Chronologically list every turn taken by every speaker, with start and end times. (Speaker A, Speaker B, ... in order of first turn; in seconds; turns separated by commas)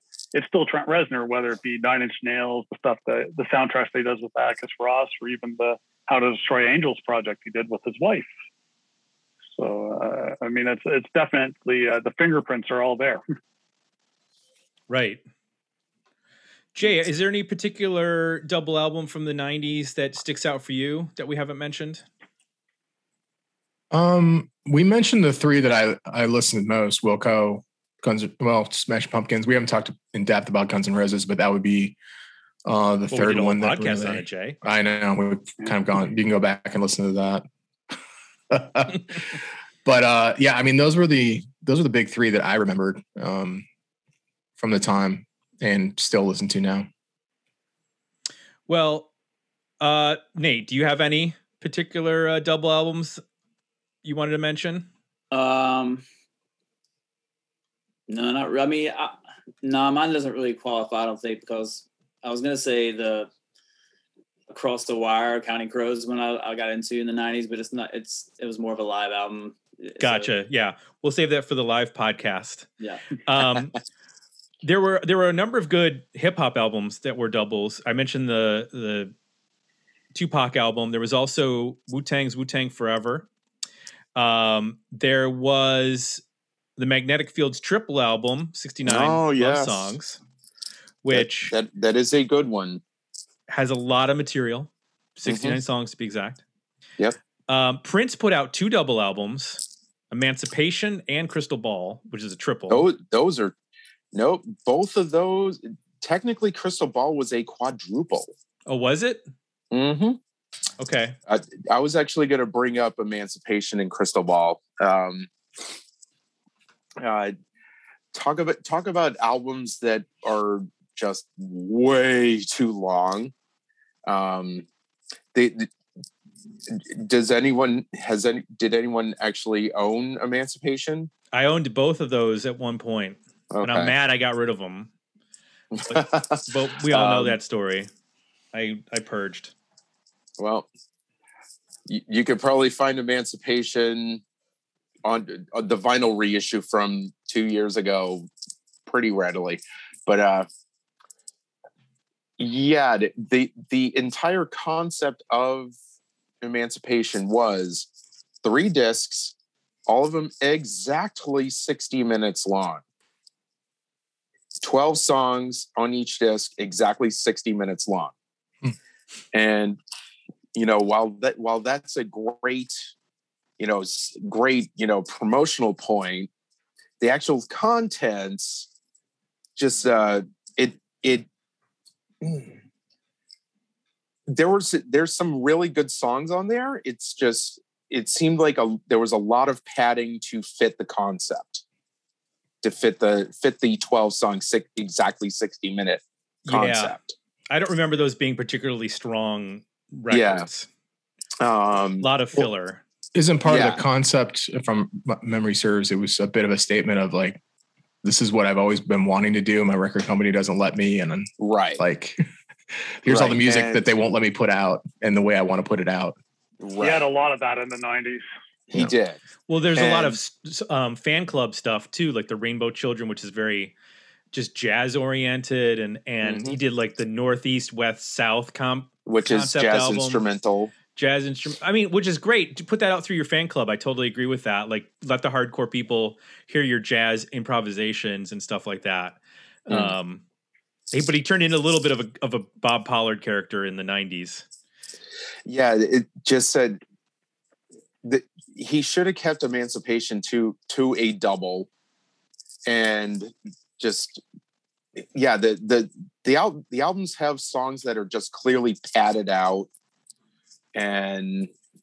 Speaker A: 0.3-8.3, Speaker A: 9.5-13.2, Speaker B: 14.9-15.2, Speaker B: 16.8-22.0, Speaker C: 23.9-31.9, Speaker C: 32.6-37.4, Speaker B: 33.1-34.6, Speaker C: 38.5-43.6, Speaker C: 44.6-46.9, Speaker B: 48.7-49.1, Speaker B: 49.8-53.2, Speaker B: 54.0-54.9, Speaker D: 55.3-56.0, Speaker D: 58.1-63.3, Speaker D: 64.5-70.3, Speaker B: 70.0-72.7, Speaker B: 73.2-73.7, Speaker B: 74.6-79.1, Speaker B: 80.1-83.3, Speaker B: 84.1-86.2, Speaker B: 86.8-90.2, Speaker E: 88.8-90.0, Speaker B: 91.0-91.5, Speaker E: 91.1-92.8, Speaker B: 93.5-96.4, Speaker E: 95.2-95.6, Speaker B: 97.5-102.8, Speaker E: 102.7-103.5, Speaker E: 104.1-108.3, Speaker B: 108.7-109.2, Speaker E: 109.7-110.2, Speaker B: 110.8-111.2, Speaker E: 111.3-115.3, Speaker E: 117.0-117.3, Speaker E: 118.1-123.3, Speaker E: 124.0-124.7, Speaker E: 125.3-125.7, Speaker E: 126.7-131.1, Speaker B: 131.3-134.9, Speaker E: 133.5-133.9, Speaker E: 135.7-137.3, Speaker B: 135.9-137.9, Speaker B: 138.5-139.5, Speaker E: 140.4-140.7, Speaker E: 141.9-144.2, Speaker E: 145.0-148.3, Speaker E: 148.8-150.5, Speaker E: 152.4-155.7, Speaker E: 156.4-157.9, Speaker E: 158.4-159.3, Speaker E: 159.9-162.8, Speaker E: 164.6-168.1, Speaker E: 169.3-169.8, Speaker E: 170.5-172.9, Speaker E: 173.6-176.3, Speaker E: 177.0-178.7, Speaker E: 179.6-181.3, Speaker E: 182.2-182.6, Speaker E: 184.3-191.6, Speaker E: 192.6-197.1, Speaker B: 196.4-196.9, Speaker B: 197.5-200.7, Speaker E: 200.1-200.4, Speaker E: 201.4-202.1, Speaker B: 202.0-202.8, Speaker C: 203.1-207.4, Speaker E: 203.5-203.8, Speaker C: 208.0-212.2, Speaker E: 211.4-211.8, Speaker C: 213.0-216.2, Speaker E: 213.1-213.9, Speaker E: 216.6-217.1, Speaker A: 216.8-218.2, Speaker E: 218.7-219.2, Speaker B: 219.5-223.7, Speaker E: 219.8-220.2, Speaker B: 224.3-230.2, Speaker E: 226.2-226.6, Speaker E: 229.1-230.7, Speaker B: 230.9-240.2, Speaker E: 239.7-239.9, Speaker B: 240.9-244.4, Speaker E: 245.5-246.8, Speaker E: 248.0-251.7, Speaker E: 252.7-254.2, Speaker E: 255.1-259.7, Speaker E: 260.7-261.5